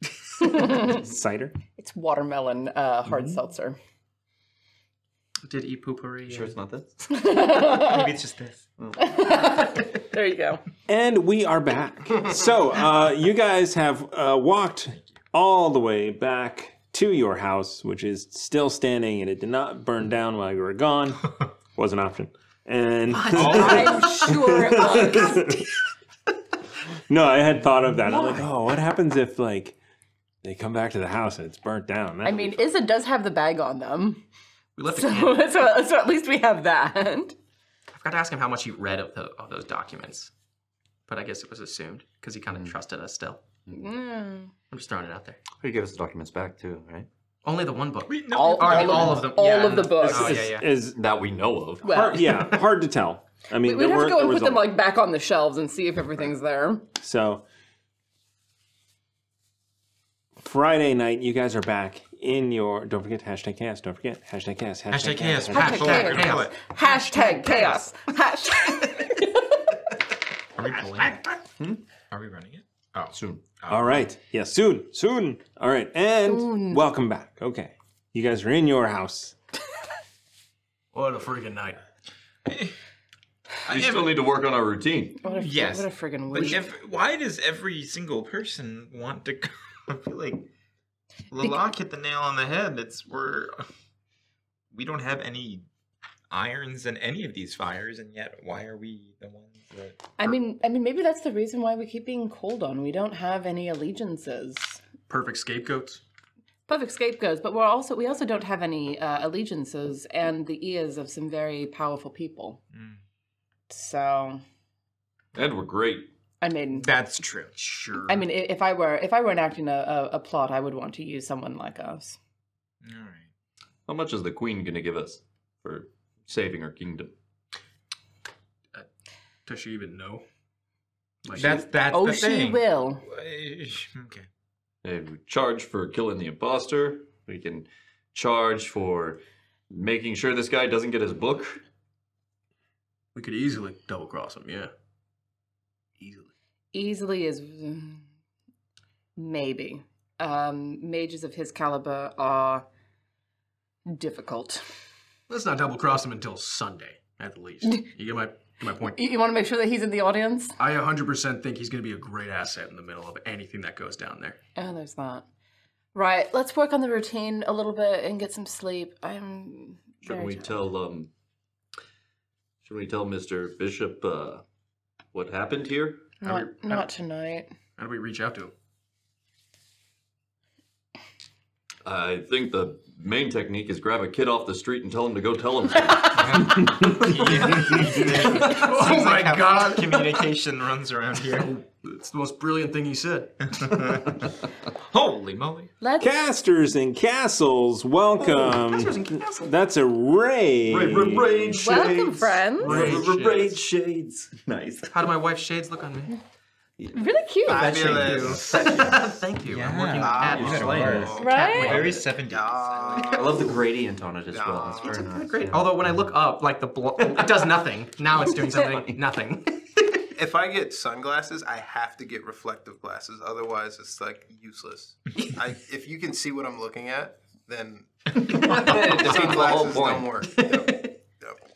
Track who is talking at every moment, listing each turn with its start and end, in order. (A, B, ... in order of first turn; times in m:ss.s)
0:00.4-0:01.0 A
0:00.5-0:01.6 B
0:01.8-0:03.8 A
0:05.4-0:06.6 C
0:06.3-0:06.9 D
0:07.1-0:08.1 A
0:07.5-0:08.6 E
0:09.0-0:10.6 A
0:10.9-0:21.2 B
0:21.8-0:25.6 B
0:23.3-0:25.6 A
0:23.3-0:24.1 E
0:27.1-0:29.8 B
0:28.1-0:28.4 A
0:30.4-0:32.6 B
0:32.2-0:34.2 A
0:34.8-0:35.6 C
0:34.9-0:37.4 A
0:37.9-0:40.3 C
0:41.1-0:43.4 C
0:43.7-0:44.5 A
0:44.7-0:45.4 C
0:45.6-0:47.1 D
0:47.4-0:50.7 C
0:48.1-0:50.3 E
0:48.3-0:50.4 A
0:50.0-0:51.0 B
0:50.9-0:52.0 D
0:51.8-0:52.3 A
0:51.8-0:54.7 B
0:53.6-0:56.9 A
0:57.0-0:57.4 B
1:00.4-1:06.0 B
1:04.9-1:06.6 E
1:05.5-1:09.6 A
1:05.6-1:07.9 C
1:10.6-1:11.4 E
1:12.1-1:14.1 E
1:13.1-1:13.4 D
1:13.7-1:19.4 B
1:16.2-1:16.8 A
1:20.9-1:21.8 C
1:23.7-1:25.2 D
1:23.7-1:24.0 E
1:25.2-1:26.6 A
1:25.3-1:30.5 E
1:26.3-1:26.6 C
1:31.3-1:33.6 E
1:34.7-1:35.7 E
1:36.3-1:40.0 E
1:40.2-1:44.8 A
1:45.1-1:46.0 C
1:46.7-1:52.6 A
1:53.7-1:54.4 A
1:55.4-1:56.1 D
1:56.4-1:56.9 A
1:56.7-1:57.5 E
1:57.6-1:58.2 C
1:58.1-2:02.2 A
2:02.8-2:03.3 E
2:03.9-2:07.1 D
2:09.5-2:10.2 C
2:11.2-2:11.6 C
2:11.3-2:14.3 E
2:11.9-2:13.0 A
2:14.8-2:21.6 D
2:23.2-2:24.7 C
2:26.0-2:26.3 C
2:26.7-2:28.0 A
2:29.2-2:32.6 A
2:33.9-2:34.6 A
2:35.3-2:39.0 C
2:38.8-2:40.6 A
2:40.6-2:44.4 C
2:44.6-2:45.2 A
2:45.9-2:50.5 A
2:50.0-2:51.1 D
2:52.6-2:54.4 D
2:55.1-2:56.1 D
2:56.2-2:57.5 A
2:56.2-2:56.9 C
2:57.8-2:58.5 C
3:01.8-3:08.5 D
3:06.2-3:11.5 E
3:07.4-3:10.3 C
3:11.3-3:13.3 C
3:13.4-3:14.2 E
3:14.9-3:15.7 E
3:15.8-3:16.1 A
3:16.0-3:21.4 B
3:18.3-3:19.5 C
3:20.7-3:25.1 D
3:21.5-3:22.8 A
3:22.6-3:23.6 C
3:24.9-3:26.2 C
3:26.9-3:27.8 A
3:27.4-3:28.7 F
3:27.5-3:32.1 C
3:28.0-3:29.2 D
3:29.5-3:33.2 E
3:29.9-3:31.5 F
3:30.2-3:31.9 D
3:31.2-3:31.8 A
3:32.1-3:33.5 F
3:33.0-3:36.1 D
3:34.3-3:35.0 F
3:34.8-3:40.0 C
3:37.0-3:37.5 D
3:38.3-3:39.0 D
3:40.1-3:51.4 F
3:48.2-3:50.2 D
3:50.4-3:51.0 C